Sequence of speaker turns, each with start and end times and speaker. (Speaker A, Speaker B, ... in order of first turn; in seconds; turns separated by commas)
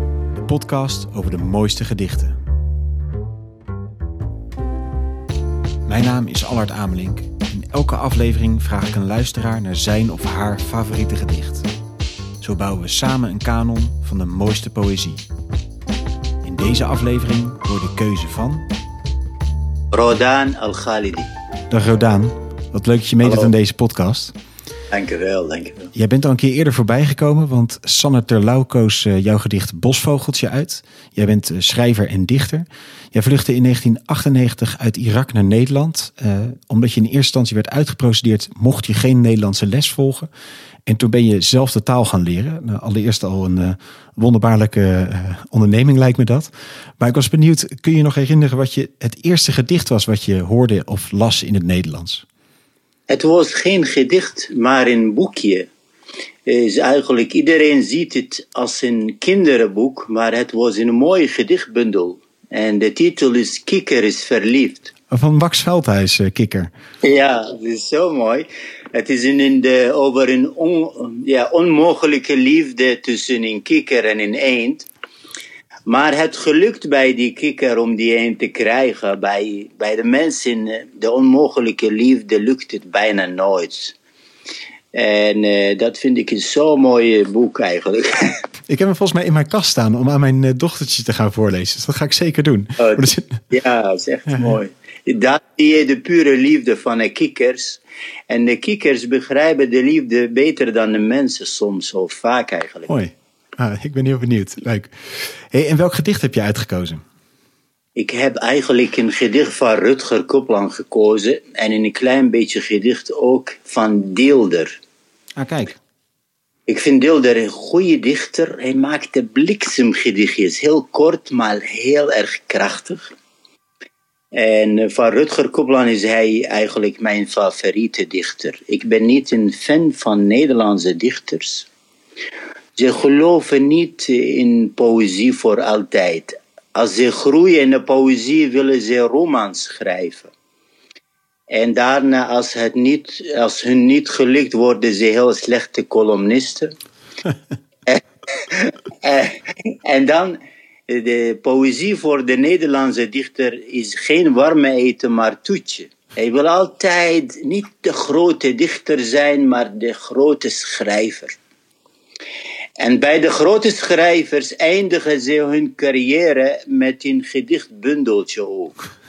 Speaker A: 0.4-2.4, Speaker A: 5.9-11.7, Speaker A: 12.4-15.3, Speaker A: 16.4-18.7, Speaker B: 19.9-21.3, Speaker A: 21.7-24.3, Speaker B: 23.2-23.5, Speaker B: 24.9-25.9, Speaker A: 25.9-40.3, Speaker A: 40.9-52.2, Speaker B: 53.1-55.7, Speaker B: 56.5-64.9, Speaker A: 65.1-66.7, Speaker B: 67.0-74.9, Speaker B: 75.9-84.0, Speaker B: 84.9-88.3, Speaker A: 88.7-93.4, Speaker B: 92.8-102.9, Speaker A: 102.9-107.0, Speaker B: 108.0-114.8, Speaker A: 115.4-115.8, Speaker B: 116.7-123.1, Speaker B: 124.3-131.7, Speaker B: 132.8-140.3, Speaker B: 141.5-146.7, Speaker B: 147.9-161.3, Speaker B: 162.8-168.8